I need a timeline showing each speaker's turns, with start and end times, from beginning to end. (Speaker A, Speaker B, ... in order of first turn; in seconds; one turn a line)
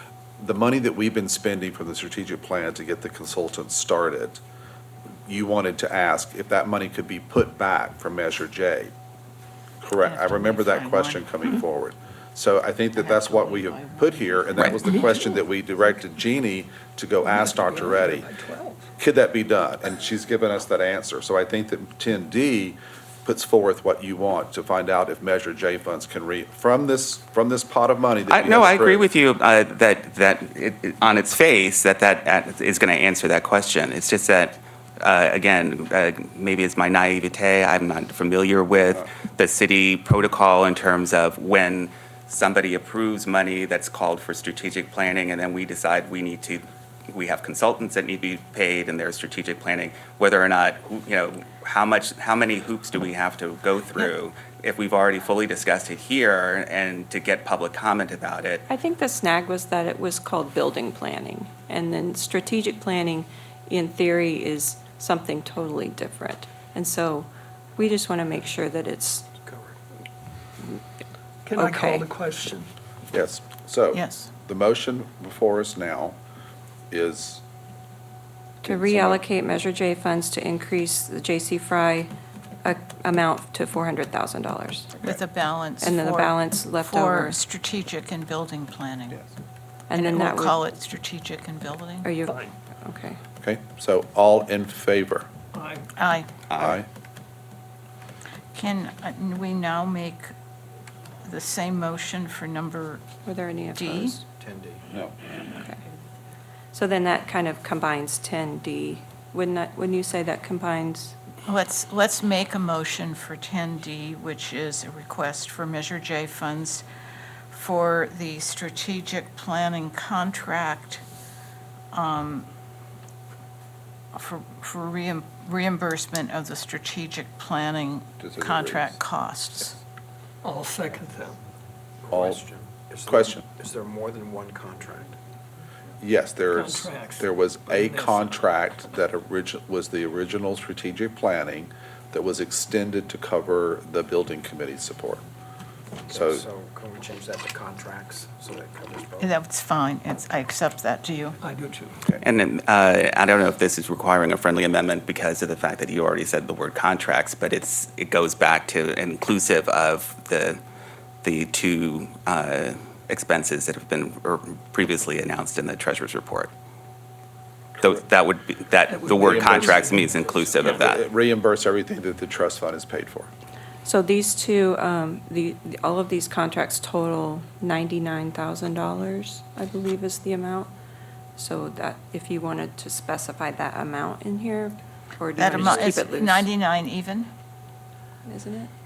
Speaker A: 0.4-4.4
Speaker A: 5.3-8.9
Speaker A: 9.8-18.3
Speaker B: 10.0-11.3
Speaker B: 12.9-15.1
Speaker C: 17.2-18.9
Speaker A: 19.0-29.1
Speaker D: 28.3-58.7
Speaker E: 58.7-69.3
Speaker F: 69.5-69.8
Speaker C: 71.5-72.7
Speaker E: 71.5-72.1
Speaker A: 73.1-76.2
Speaker B: 73.9-74.3
Speaker A: 76.9-77.4
Speaker E: 78.6-82.1
Speaker A: 78.7-79.2
Speaker E: 82.6-84.9
Speaker B: 85.0-89.2
Speaker E: 85.8-87.4
Speaker E: 89.9-90.6
Speaker B: 89.9-92.1
Speaker E: 92.0-93.2
Speaker C: 92.3-92.5
Speaker A: 93.4-95.3
Speaker C: 95.5-95.9
Speaker B: 96.0-96.3
Speaker D: 96.5-96.8
Speaker A: 96.5-96.9
Speaker B: 98.5-100.3
Speaker B: 101.2-103.1
Speaker E: 103.2-104.2
Speaker B: 103.7-104.2
Speaker F: 104.4-104.9
Speaker E: 105.4-105.8
Speaker E: 106.7-111.2
Speaker B: 111.5-116.8
Speaker B: 117.5-121.0
Speaker B: 121.9-122.5
Speaker B: 124.1-129.8
Speaker A: 128.2-129.0
Speaker C: 130.4-131.4
Speaker F: 132.0-135.2
Speaker A: 132.1-132.4
Speaker A: 133.1-133.4
Speaker A: 136.0-145.2
Speaker C: 136.5-138.5
Speaker F: 146.1-149.3
Speaker A: 146.1-146.4
Speaker B: 149.2-151.4
Speaker C: 151.4-152.0
Speaker D: 152.2-160.6
Speaker D: 161.2-166.5
Speaker D: 167.8-171.1
Speaker C: 168.9-170.8
Speaker A: 169.2-169.8
Speaker A: 170.6-173.3
Speaker E: 173.8-180.7
Speaker E: 181.4-186.5
Speaker B: 185.4-187.3
Speaker E: 188.3-188.7